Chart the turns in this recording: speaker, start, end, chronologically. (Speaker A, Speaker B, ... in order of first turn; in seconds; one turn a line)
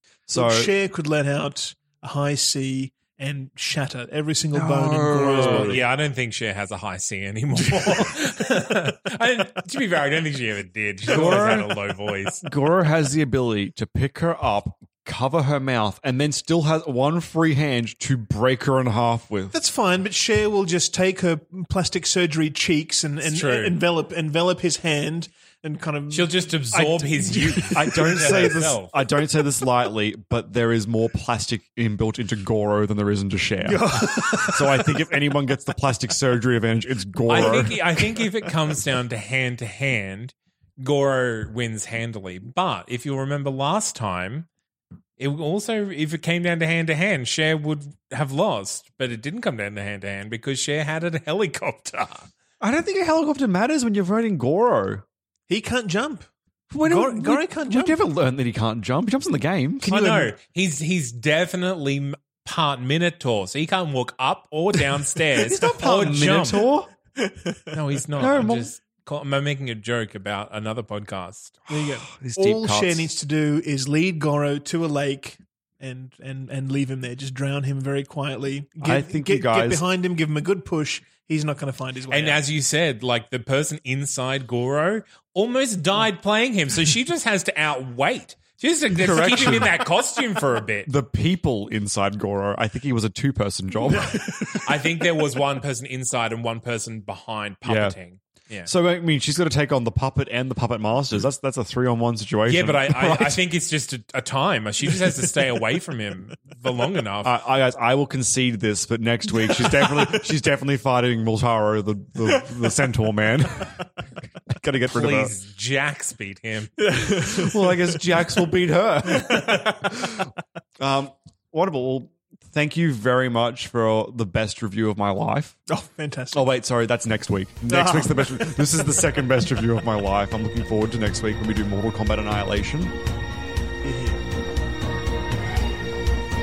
Speaker A: 0.3-0.7
Speaker B: 0.3-5.8
Speaker A: 4.5-5.8
Speaker C: 5.3-12.4
Speaker B: 7.6-8.2
Speaker A: 11.1-11.7
Speaker A: 12.4-19.5
Speaker B: 19.5-26.4
Speaker C: 23.2-23.8
Speaker C: 26.1-28.9
Speaker A: 26.7-37.8
Speaker B: 27.2-28.3
Speaker B: 33.6-35.1
Speaker C: 37.3-44.5
Speaker B: 37.3-38.0
Speaker C: 45.2-52.3
Speaker A: 52.6-55.0
Speaker B: 55.5-56.2
Speaker A: 56.7-59.9
Speaker B: 56.8-58.0
Speaker B: 59.8-60.3
Speaker C: 59.8-66.7
Speaker A: 65.4-66.9
Speaker B: 67.2-67.8
Speaker C: 67.7-71.6
Speaker A: 68.2-68.7
Speaker B: 71.7-82.4
Speaker A: 71.7-73.1
Speaker A: 78.8-79.8
Speaker C: 82.1-90.9
Speaker A: 88.9-89.8
Speaker A: 90.8-94.2
Speaker B: 93.9-94.8
Speaker C: 94.6-98.7
Speaker A: 97.6-98.0
Speaker A: 98.7-103.4
Speaker C: 102.5-107.3
Speaker A: 107.2-113.9
Speaker A: 114.4-115.3
Speaker C: 114.9-116.7
Speaker B: 116.8-118.2
Speaker A: 117.2-125.6
Speaker B: 119.1-119.7
Speaker B: 125.7-126.5
Speaker A: 126.3-132.9
Speaker B: 127.7-128.7
Speaker B: 133.8-134.2